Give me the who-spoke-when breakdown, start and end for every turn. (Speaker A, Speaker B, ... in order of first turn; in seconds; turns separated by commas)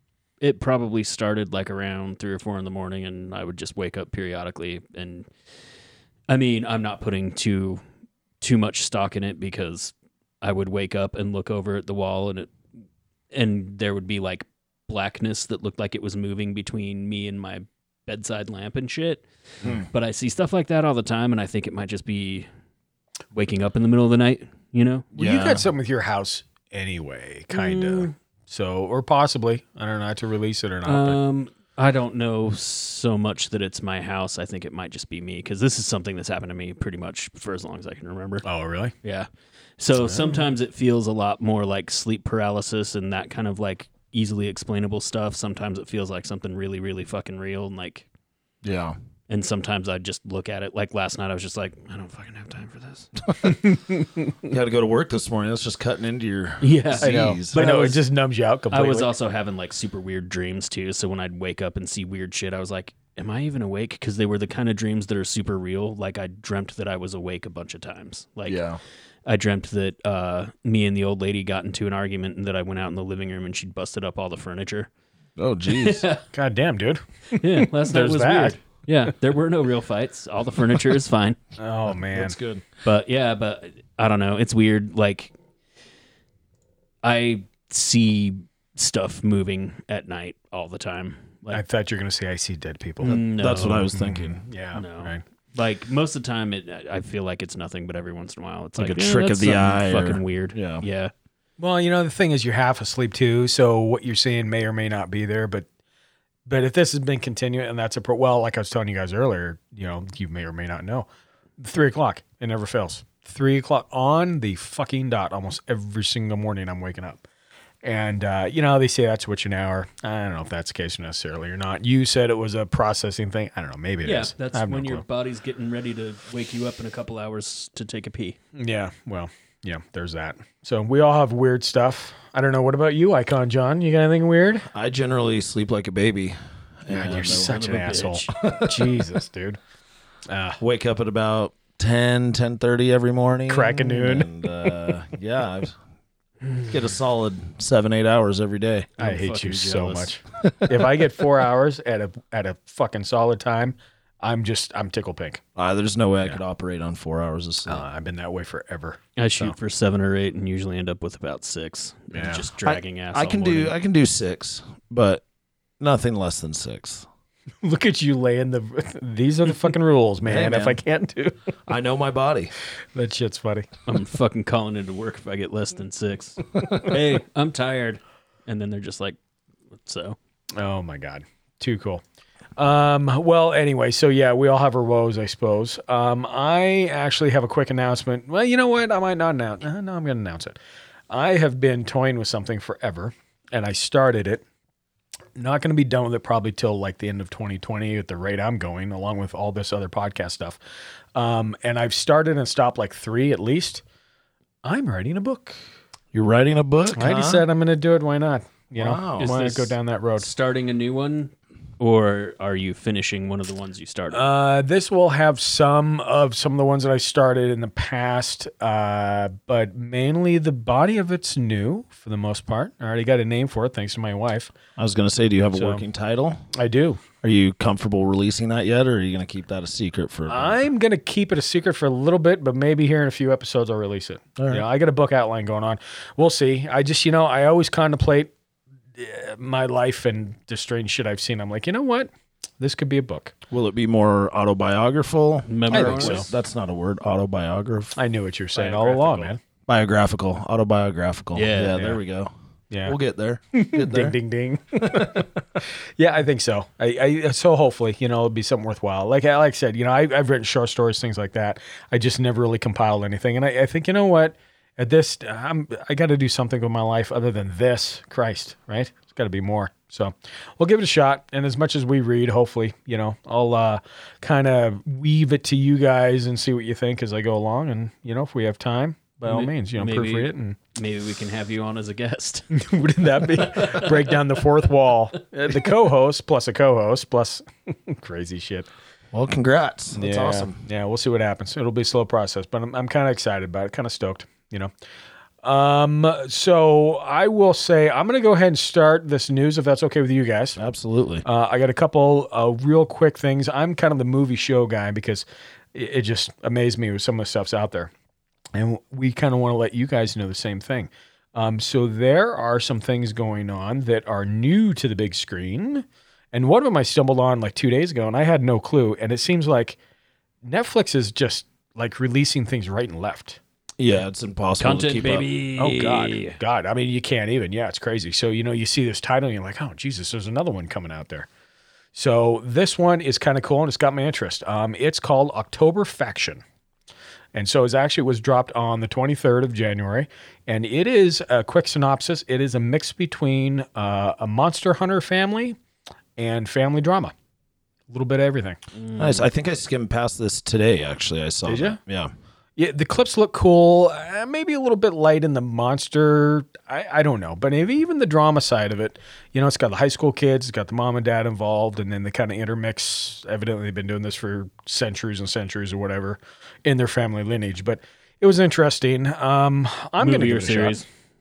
Speaker A: 0.4-5.3, Speaker A: 6.3-7.8, Speaker A: 8.4-12.5, Speaker A: 13.3-19.2, Speaker A: 19.9-22.5, Speaker A: 23.3-25.1, Speaker B: 25.1-31.2, Speaker C: 25.2-25.7, Speaker A: 27.5-28.1, Speaker A: 30.9-38.5, Speaker B: 38.4-38.9, Speaker A: 39.0-48.1, Speaker B: 40.0-40.5, Speaker C: 48.6-49.0, Speaker A: 49.3-53.1, Speaker C: 53.3-53.6, Speaker B: 53.4-54.3, Speaker C: 54.5-57.6, Speaker A: 56.6-58.0, Speaker B: 57.0-59.1, Speaker A: 58.7-68.6, Speaker C: 68.5-68.8, Speaker A: 69.3-74.9, Speaker C: 75.4-76.1, Speaker A: 75.7-76.2, Speaker B: 76.3-78.6, Speaker A: 77.3-81.4, Speaker B: 81.6-82.4, Speaker C: 82.1-82.7, Speaker A: 82.8-85.3, Speaker A: 87.0-91.6, Speaker B: 91.5-93.2, Speaker A: 93.0-93.9, Speaker C: 93.0-94.4, Speaker B: 93.9-95.2, Speaker A: 94.7-101.1, Speaker C: 98.8-100.8, Speaker B: 101.6-105.7, Speaker B: 106.5-117.2, Speaker B: 117.8-125.0, Speaker A: 124.0-128.4, Speaker B: 128.6-134.7, Speaker C: 134.7-139.1, Speaker B: 136.9-139.6, Speaker A: 137.0-138.3, Speaker B: 140.3-140.6, Speaker C: 140.6-145.8, Speaker B: 143.5-144.7, Speaker C: 146.7-148.9, Speaker A: 149.0-150.1, Speaker B: 149.0-155.4, Speaker C: 155.6-157.8, Speaker B: 157.7-159.6, Speaker A: 159.2-163.8, Speaker B: 162.1-162.4, Speaker C: 162.6-165.2, Speaker C: 165.8-167.1, Speaker B: 167.6-171.5, Speaker C: 170.2-170.8, Speaker C: 171.7-172.6, Speaker B: 172.9-173.7, Speaker A: 173.9-179.2, Speaker A: 179.8-180.2, Speaker B: 180.6-182.0, Speaker B: 182.6-190.6, Speaker B: 191.1-194.4, Speaker B: 195.4-200.6, Speaker B: 201.1-203.8, Speaker B: 204.6-205.6, Speaker C: 206.1-207.5, Speaker B: 206.9-210.3, Speaker C: 208.8-209.3, Speaker A: 209.2-214.2, Speaker B: 214.1-224.5, Speaker C: 224.8-226.4, Speaker B: 225.5-225.8, Speaker B: 226.5-227.0, Speaker C: 227.2-230.7, Speaker B: 230.3-238.3, Speaker C: 234.4-234.7, Speaker B: 238.9-243.3, Speaker C: 243.5-248.0, Speaker A: 245.5-246.2, Speaker B: 245.7-246.3, Speaker B: 248.0-249.4, Speaker A: 248.6-249.3, Speaker C: 249.7-252.3, Speaker A: 251.3-251.8, Speaker B: 252.7-253.0, Speaker C: 252.8-254.2, Speaker B: 253.5-280.6, Speaker A: 279.2-282.5, Speaker B: 282.5-288.7, Speaker A: 283.4-284.1, Speaker C: 289.1-290.6, Speaker B: 289.9-294.7, Speaker B: 295.4-300.6, Speaker C: 300.6-301.2, Speaker B: 301.2-307.9, Speaker B: 308.6-319.8, Speaker B: 320.4-323.4, Speaker C: 323.8-325.3, Speaker A: 324.6-326.4, Speaker B: 325.6-331.3, Speaker B: 331.9-336.4, Speaker B: 337.3-345.6, Speaker B: 346.2-347.1, Speaker B: 347.9-348.6, Speaker A: 348.8-349.2, Speaker C: 349.0-352.1, Speaker B: 351.4-351.8, Speaker B: 352.6-370.9, Speaker A: 370.0-370.9